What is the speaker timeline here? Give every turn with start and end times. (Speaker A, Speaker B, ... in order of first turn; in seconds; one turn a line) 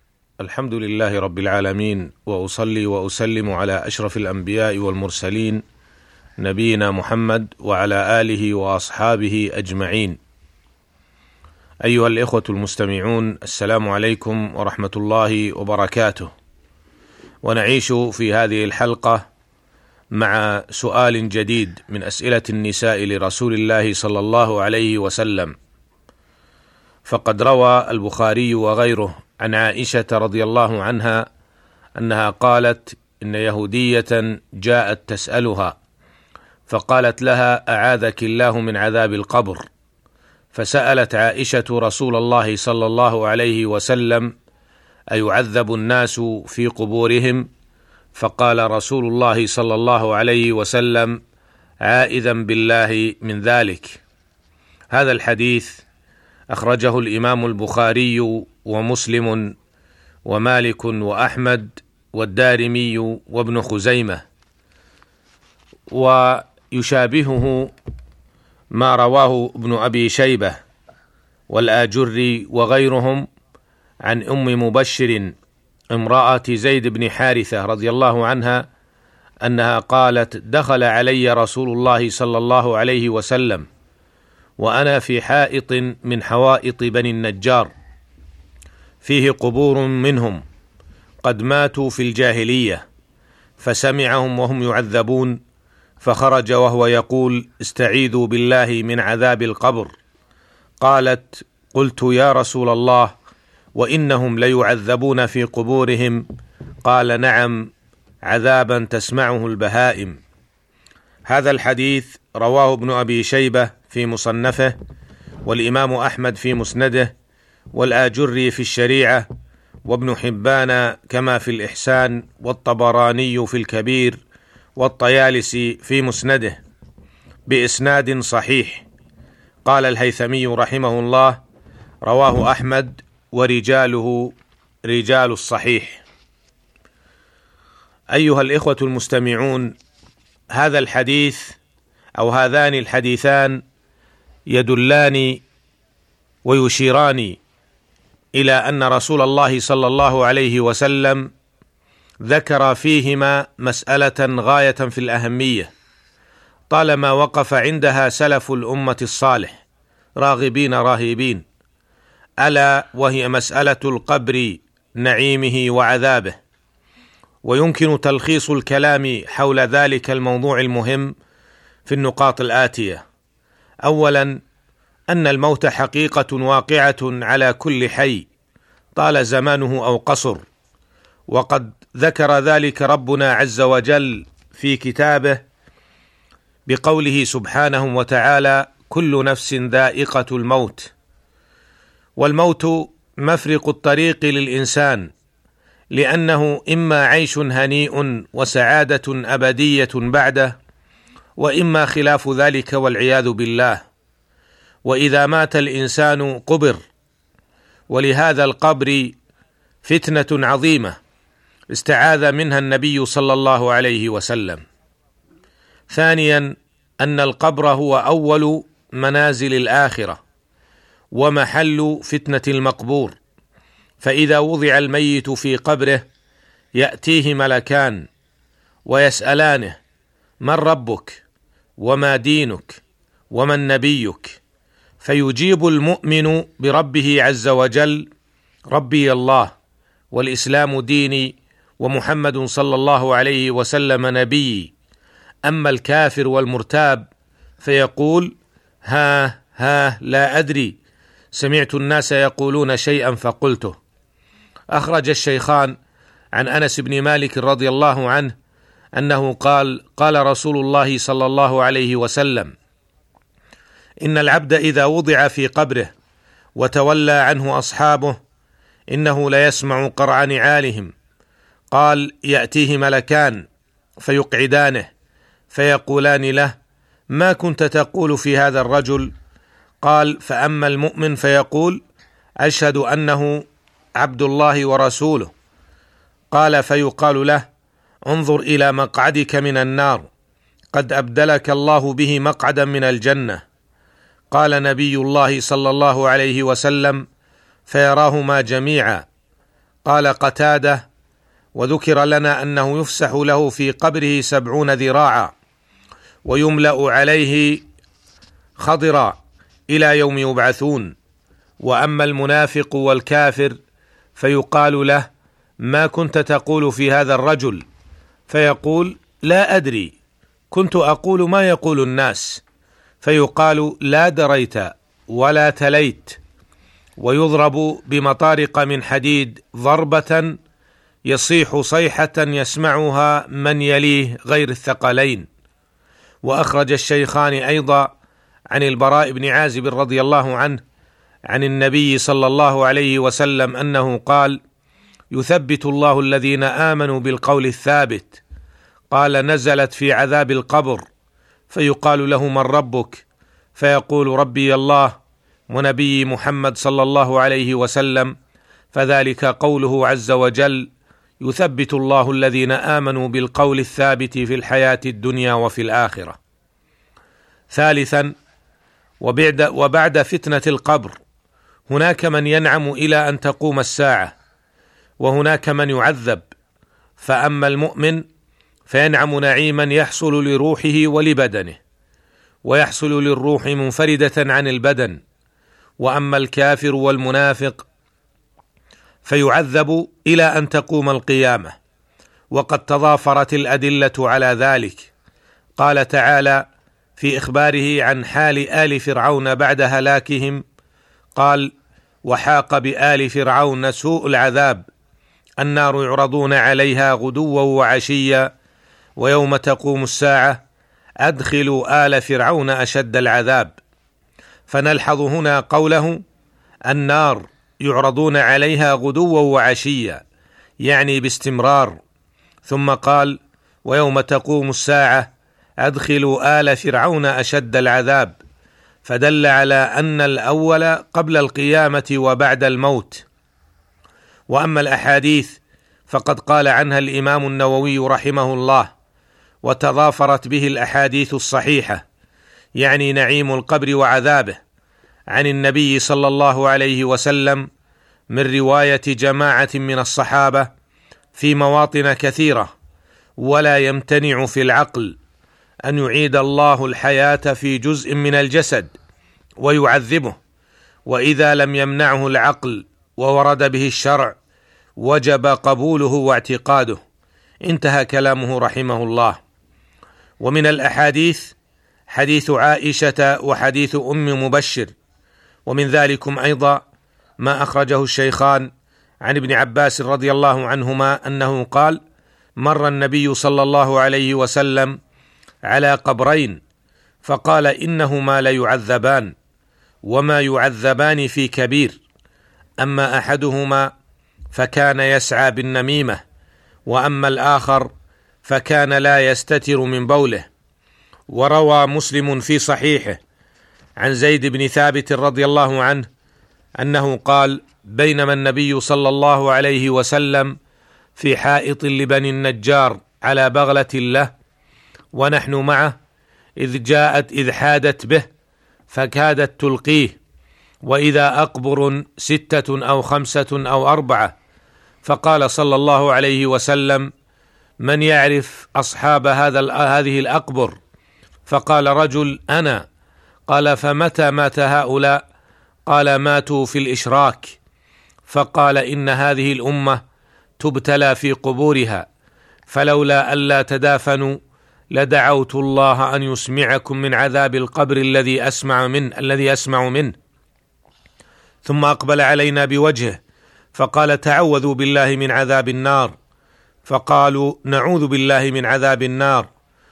Speaker A: 0.4-5.6
Speaker A: 6.4-10.2
Speaker A: 11.8-16.3
Speaker A: 17.4-19.2
Speaker A: 20.1-25.5
Speaker A: 27.1-31.2
Speaker A: 32.0-35.8
Speaker A: 36.7-39.6
Speaker A: 40.5-44.3
Speaker A: 45.1-47.5
Speaker A: 48.1-51.2
Speaker A: 51.8-54.0
Speaker A: 54.9-55.8
Speaker A: 56.5-59.5
Speaker A: 60.2-64.2
Speaker A: 65.9-67.7
Speaker A: 68.7-70.6
Speaker A: 71.5-73.2
Speaker A: 74.0-75.3
Speaker A: 75.9-78.7
Speaker A: 79.4-83.7
Speaker A: 84.6-87.7
Speaker A: 89.0-90.4
Speaker A: 91.2-92.8
Speaker A: 93.6-95.4
Speaker A: 96.0-99.9
Speaker A: 100.8-103.1
Speaker A: 103.7-106.2
Speaker A: 106.8-107.7
Speaker A: 108.2-110.2
Speaker A: 111.3-114.8
Speaker A: 115.4-117.1
Speaker A: 117.7-119.3
Speaker A: 119.8-124.2
Speaker A: 124.8-126.6
Speaker A: 127.5-128.8
Speaker A: 129.6-131.4
Speaker A: 132.0-136.0
Speaker A: 138.1-139.8
Speaker A: 140.5-141.6
Speaker A: 142.2-143.6
Speaker A: 144.5-145.4
Speaker A: 146.4-147.4
Speaker A: 148.3-151.3
Speaker A: 152.2-155.7
Speaker A: 156.7-159.6
Speaker A: 160.2-161.4
Speaker A: 162.4-166.4
Speaker A: 167.4-171.1
Speaker A: 171.8-173.0
Speaker A: 173.8-174.4
Speaker A: 175.1-178.3
Speaker A: 178.9-180.4
Speaker A: 181.3-185.4
Speaker A: 186.7-190.9
Speaker A: 192.2-195.1
Speaker A: 195.9-200.6
Speaker A: 201.4-203.8
Speaker A: 204.8-206.8
Speaker A: 207.9-209.1
Speaker A: 209.8-211.0
Speaker A: 211.7-214.6
Speaker A: 215.9-220.2
Speaker A: 221.1-223.2
Speaker A: 224.0-226.0
Speaker A: 226.7-228.1
Speaker A: 228.8-229.8
Speaker A: 230.4-231.2
Speaker A: 231.8-234.4
Speaker A: 235.0-238.1
Speaker A: 238.7-239.5
Speaker A: 240.1-244.7
Speaker A: 245.4-247.1
Speaker A: 247.6-248.3
Speaker A: 248.8-250.8
Speaker A: 251.3-253.8
Speaker A: 254.7-255.7
Speaker A: 256.3-258.3
Speaker A: 258.9-262.5
Speaker A: 264.0-265.9
Speaker A: 266.6-268.2
Speaker A: 268.9-270.9
Speaker A: 271.7-273.5
Speaker A: 274.0-274.9
Speaker A: 275.5-276.5
Speaker A: 277.1-279.1
Speaker A: 279.8-281.8
Speaker A: 282.4-283.4
Speaker A: 284.0-285.3
Speaker A: 286.3-287.4
Speaker A: 288.1-290.1
Speaker A: 290.7-293.4
Speaker A: 294.3-297.0
Speaker A: 297.7-299.1
Speaker A: 299.8-300.8
Speaker A: 301.5-305.3
Speaker A: 306.2-307.6
Speaker A: 308.6-309.2
Speaker A: 309.7-310.9
Speaker A: 311.6-313.6
Speaker A: 314.2-315.1
Speaker A: 315.6-317.6
Speaker A: 318.3-319.9
Speaker A: 320.5-322.4
Speaker A: 323.0-326.2
Speaker A: 327.0-330.4
Speaker A: 331.1-335.3
Speaker A: 336.2-337.9
Speaker A: 338.5-340.6
Speaker A: 341.3-344.4
Speaker A: 345.1-348.2
Speaker A: 348.9-350.8
Speaker A: 351.5-353.0
Speaker A: 353.6-354.9
Speaker A: 355.5-358.1
Speaker A: 358.7-360.7
Speaker A: 361.2-366.2
Speaker A: 367.5-368.1
Speaker A: 369.0-370.9
Speaker A: 371.7-374.1
Speaker A: 375.0-376.3
Speaker A: 377.0-378.0
Speaker A: 378.7-381.6
Speaker A: 382.4-385.0
Speaker A: 385.8-387.7
Speaker A: 389.0-391.5
Speaker A: 392.3-394.9
Speaker A: 395.6-396.4
Speaker A: 397.0-400.4
Speaker A: 401.1-401.5
Speaker A: 402.0-404.7
Speaker A: 405.4-408.3
Speaker A: 409.0-410.4
Speaker A: 411.0-413.5
Speaker A: 414.5-416.0
Speaker A: 416.7-420.0
Speaker A: 420.6-421.8
Speaker A: 422.4-425.1
Speaker A: 425.6-428.2
Speaker A: 428.8-433.0
Speaker A: 434.3-438.7
Speaker A: 439.4-441.8
Speaker A: 442.6-444.4
Speaker A: 445.1-447.4
Speaker A: 448.1-450.5
Speaker A: 451.1-452.5
Speaker A: 453.2-455.0
Speaker A: 455.6-458.7
Speaker A: 459.4-460.2
Speaker A: 460.9-464.1
Speaker A: 464.8-466.8
Speaker A: 467.4-469.2
Speaker A: 470.2-471.4
Speaker A: 471.9-474.7
Speaker A: 475.5-476.6
Speaker A: 477.2-478.5
Speaker A: 479.0-481.8
Speaker A: 482.4-484.8
Speaker A: 485.5-486.4
Speaker A: 487.0-489.1
Speaker A: 489.8-491.8
Speaker A: 492.6-493.7
Speaker A: 494.3-496.0
Speaker A: 496.7-497.7
Speaker A: 498.2-500.3
Speaker A: 501.1-503.0
Speaker A: 503.8-505.9
Speaker A: 506.6-510.3
Speaker A: 510.9-514.1
Speaker A: 514.9-515.7
Speaker A: 516.4-518.1
Speaker A: 518.7-520.0
Speaker A: 520.6-524.1
Speaker A: 524.8-526.9
Speaker A: 527.6-530.6
Speaker A: 531.3-532.6
Speaker A: 533.3-535.0
Speaker A: 535.7-537.4
Speaker A: 538.1-539.8
Speaker A: 540.4-541.9
Speaker A: 542.5-544.2
Speaker A: 544.7-549.9
Speaker A: 551.4-553.0
Speaker A: 553.5-555.9
Speaker A: 556.6-559.3